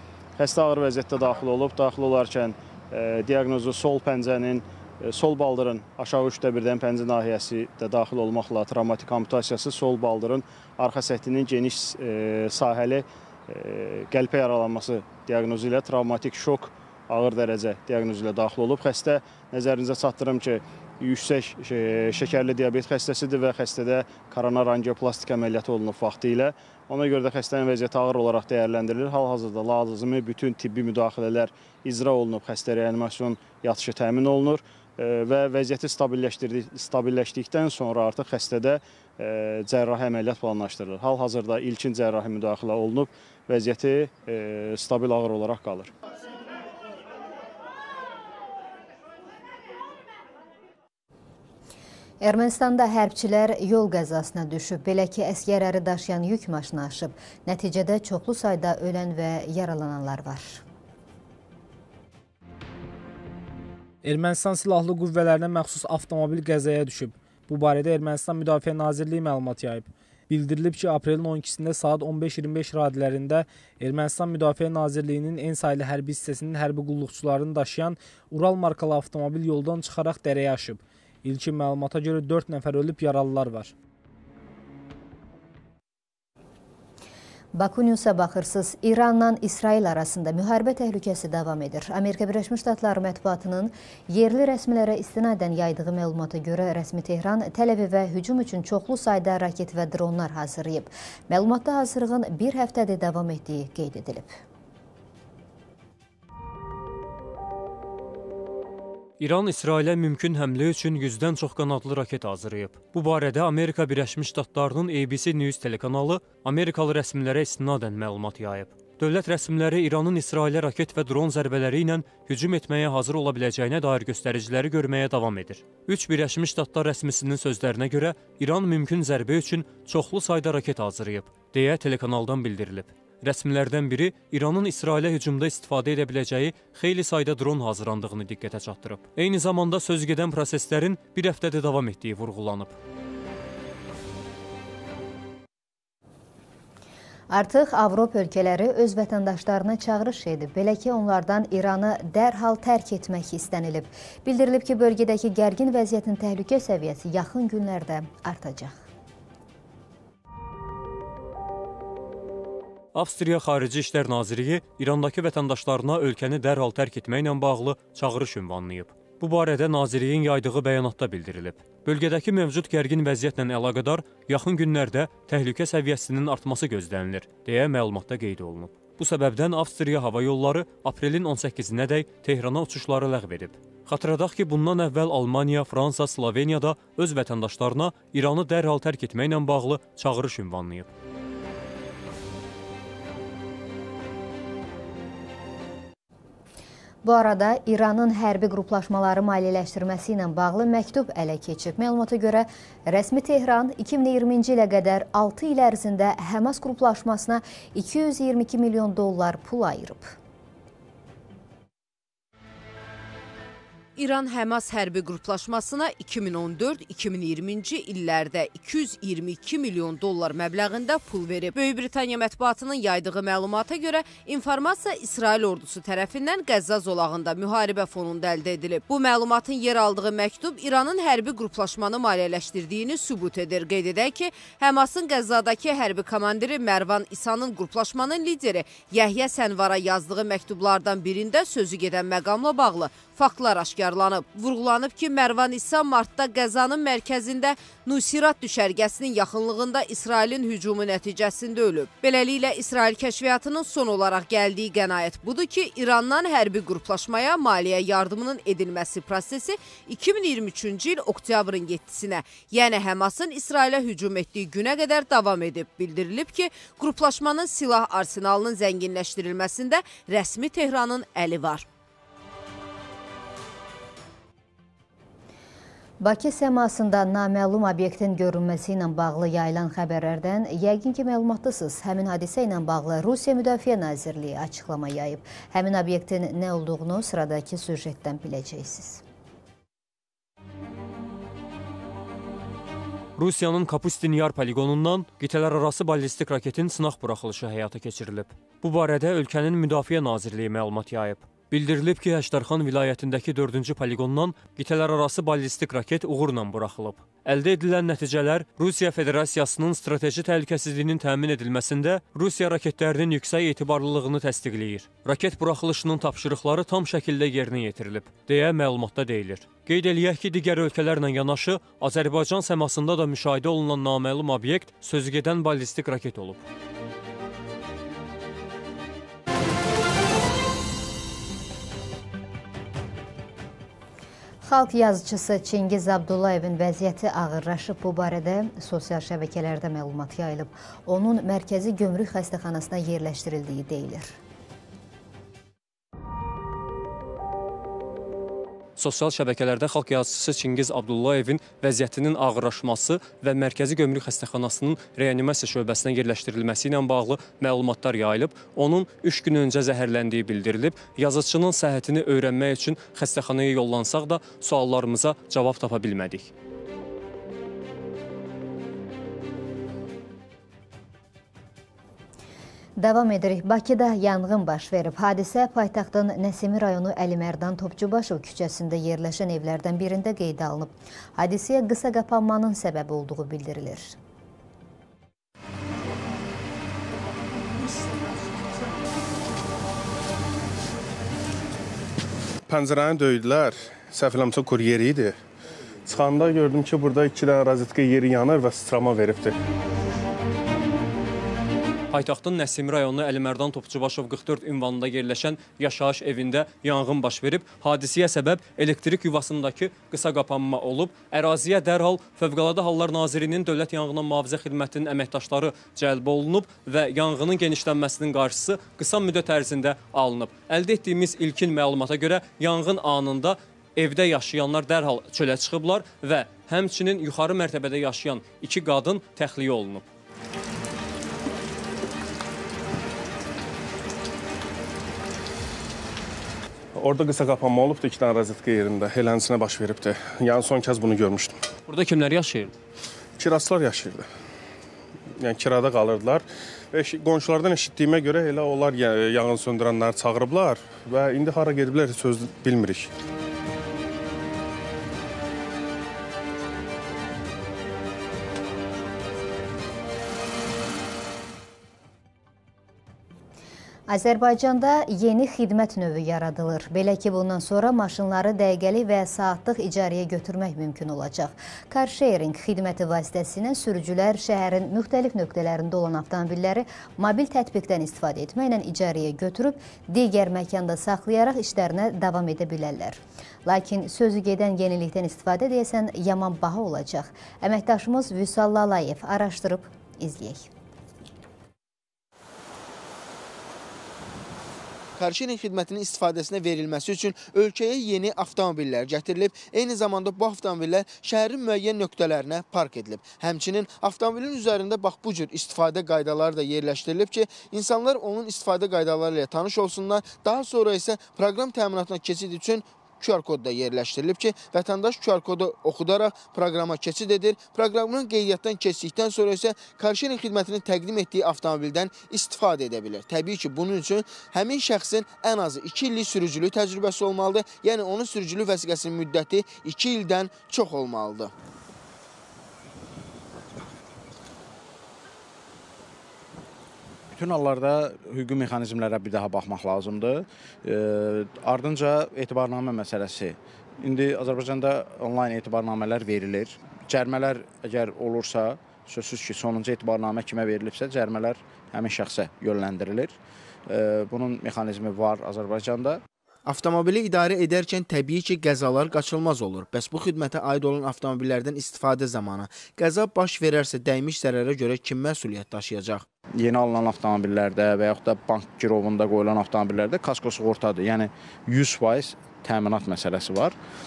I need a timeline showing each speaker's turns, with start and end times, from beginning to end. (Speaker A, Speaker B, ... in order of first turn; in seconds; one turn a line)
Speaker A: 0.4-45.9
Speaker B: 52.2-60.6
Speaker C: 64.0-83.7
Speaker B: 87.5-104.4
Speaker D: 109.2-142.7
Speaker B: 147.3-158.8
Speaker D: 162.9-190.9
Speaker B: 197.0-210.1
Speaker E: 214.0-271.6
Speaker B: 276.0-289.0
Speaker D: 293.2-326.4
Speaker B: 334.4-344.1
Speaker D: 348.8-366.3
Speaker B: 372.8-383.9
Speaker F: 392.5-395.1
Speaker F: 395.9-399.4
Speaker D: 401.9-429.9
Speaker F: 436.8-441.4
Speaker D: 441.7-442.5
Speaker F: 443.2-444.0
Speaker F: 445.2-452.9
Speaker B: 463.9-490.5
Speaker G: 495.0-531.3
Speaker H: 537.1-553.1
Speaker H: 553.7-556.0
Speaker G: 556.4-566.0
Speaker H: 566.4-573.5